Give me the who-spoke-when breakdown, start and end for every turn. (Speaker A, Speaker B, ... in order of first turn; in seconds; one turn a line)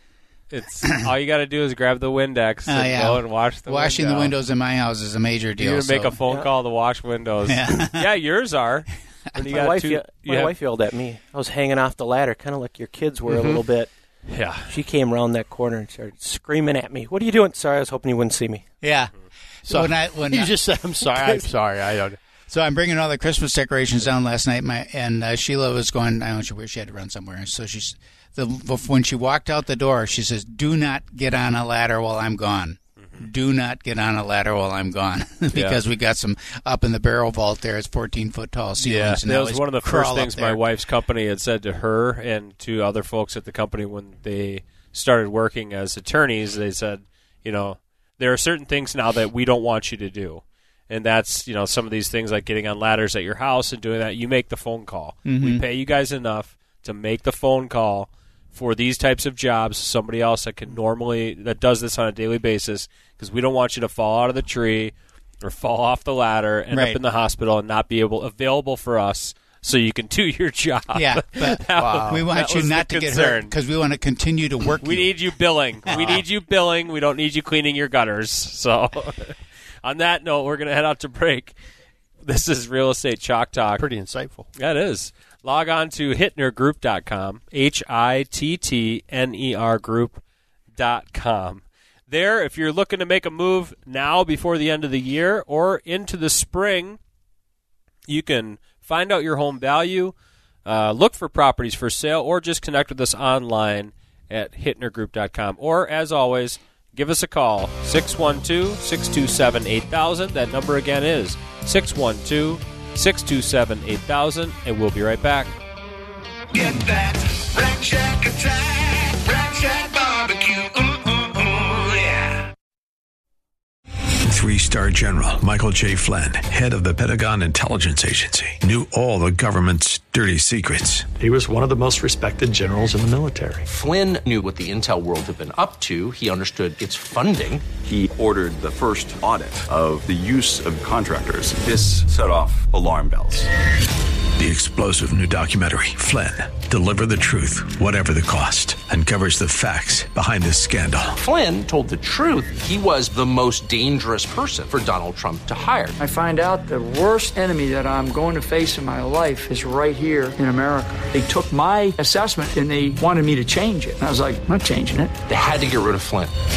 Speaker A: 0.5-4.3
Speaker B: 2.7-6.2
Speaker A: 5.6-10.5
Speaker B: 7.5-8.1
Speaker C: 9.4-13.9
Speaker D: 13.3-13.6
Speaker A: 14.3-14.7
Speaker C: 14.5-18.6
Speaker B: 18.8-20.5
Speaker D: 19.7-22.2
Speaker C: 21.0-21.5
Speaker B: 22.5-40.7
Speaker A: 35.5-35.8
Speaker A: 38.8-73.5
Speaker B: 55.2-55.6
Speaker B: 66.7-67.0
Speaker B: 70.9-75.2
Speaker A: 74.8-81.6
Speaker B: 75.9-76.2
Speaker A: 82.2-83.8
Speaker D: 83.8-84.5
Speaker A: 84.5-90.2
Speaker A: 90.7-97.0
Speaker A: 98.1-115.5
Speaker E: 116.5-122.4
Speaker F: 124.3-131.1
Speaker G: 131.2-133.6
Speaker H: 133.7-137.7
Speaker I: 137.8-143.5
Speaker F: 144.4-151.2
Speaker H: 151.2-155.9
Speaker E: 156.0-165.1
Speaker H: 165.3-166.3